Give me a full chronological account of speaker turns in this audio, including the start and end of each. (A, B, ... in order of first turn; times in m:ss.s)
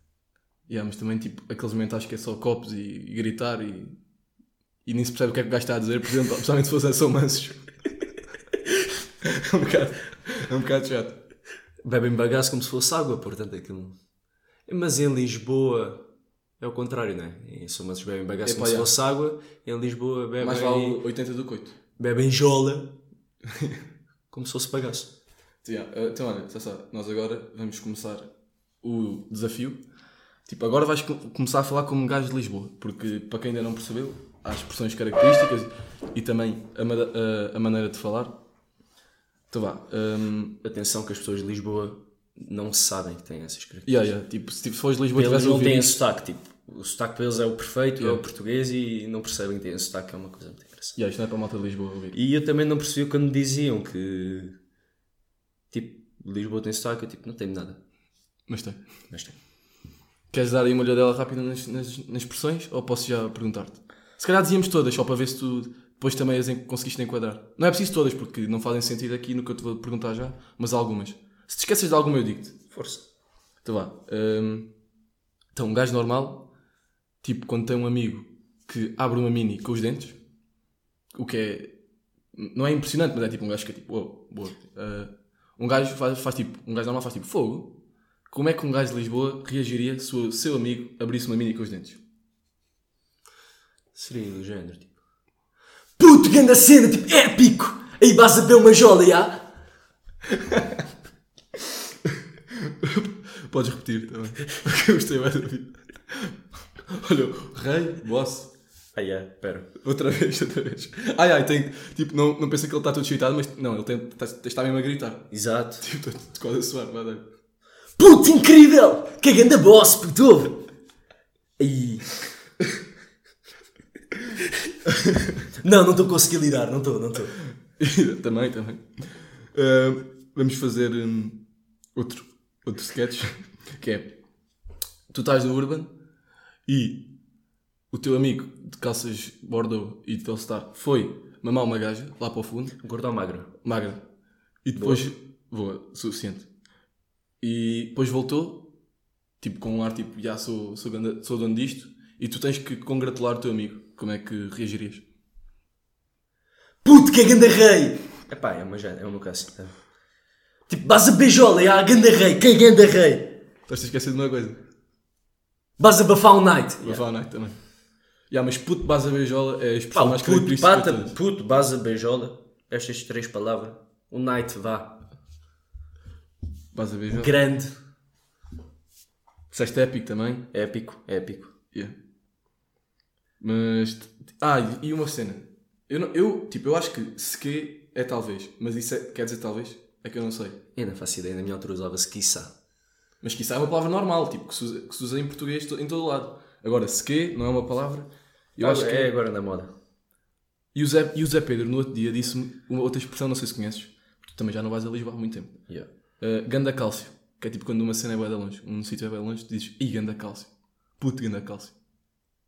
0:00.7-0:04.0 A
0:04.8-0:07.7 A
0:09.2-0:11.2 A
0:11.8-0:13.9 B
0:14.6-0:16.0 B
0:16.6-0:21.0 B
0:18.4-0:19.0 A
0:20.4-0:21.8 A
0:22.0-0:23.0 B
0:24.3-0:25.1 B
0:25.6-0:28.3 A
0:28.8-0:29.8 A
0:30.4-0:38.4 A
0:39.5-0:40.6 A
0:40.6-0:44.1 B
0:43.8-0:46.0 A
0:45.1-0:51.0 B
0:48.0-0:48.2 A
0:51.0-0:52.1 A
0:52.1-0:54.6 B
0:55.7-0:57.8 B
0:58.5-0:58.8 A
0:59.1-0:59.4 B
1:00.3-1:12.6 A
1:12.7-1:13.0 B
1:13.6-1:14.7 A
1:15.5-1:16.5 A
1:17.2-1:20.2 A
1:21.1-1:21.8 A
1:22.3-1:32.0 A
1:33.9-1:34.9 B
1:36.0-1:39.5 B
1:40.5-1:40.8 A
1:42.7-1:48.5 A
1:48.9-1:49.7 B
1:49.8-1:57.2 A
1:55.3-1:55.8 B
1:58.0-2:00.7 B
2:01.6-2:02.1 B
2:05.6-2:07.4 B
2:07.8-2:08.9 A
2:09.5-2:11.4 A
2:11.9-2:14.2 A
2:15.1-2:15.9 A
2:16.6-2:17.1 A
2:17.9-2:22.8 A
2:22.8-2:23.5 B
2:23.6-2:24.0 A
2:24.6-2:26.5 A
2:24.7-2:25.1 B
2:27.4-2:28.7 A
2:29.4-2:35.0 A
2:36.8-2:39.8 B
2:40.7-2:43.4 B
2:43.7-2:44.6 A
2:45.8-2:47.0 B
2:46.8-2:47.6 A
2:48.3-2:51.2 A
2:49.9-2:55.1 B
2:56.7-2:57.4 A
2:57.1-2:57.8 B
2:59.5-3:00.5 A
3:00.5-3:01.5 B
3:03.4-3:10.6 A
3:10.7-3:12.5 B
3:13.2-3:19.1 A
3:18.6-3:19.7 B
3:20.7-3:25.6 A
3:26.2-3:31.7 A